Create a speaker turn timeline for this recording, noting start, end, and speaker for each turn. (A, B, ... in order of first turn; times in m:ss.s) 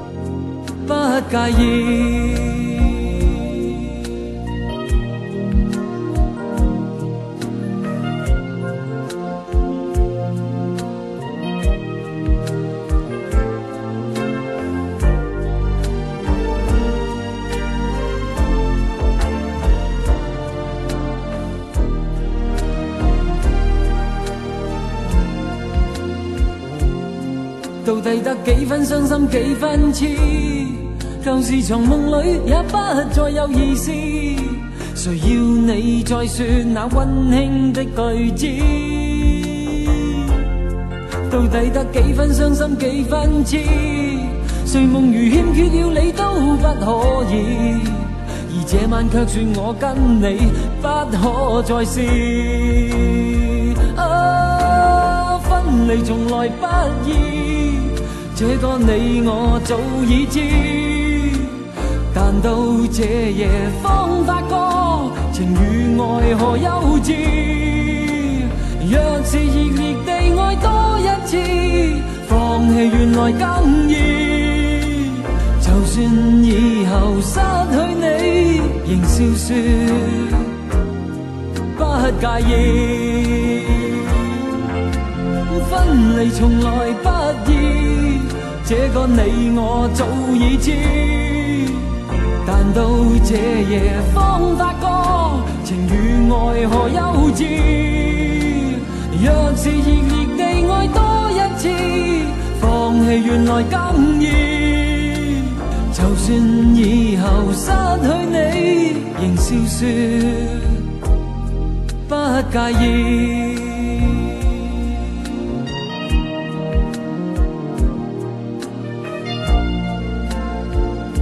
0:00.8-0:03.9 A
0:27.8-0:40.4 A
0:41.2-1:20.6 A
1:21.7-1:24.3 A
1:25.4-1:50.9 A
1:52.0-1:54.8 A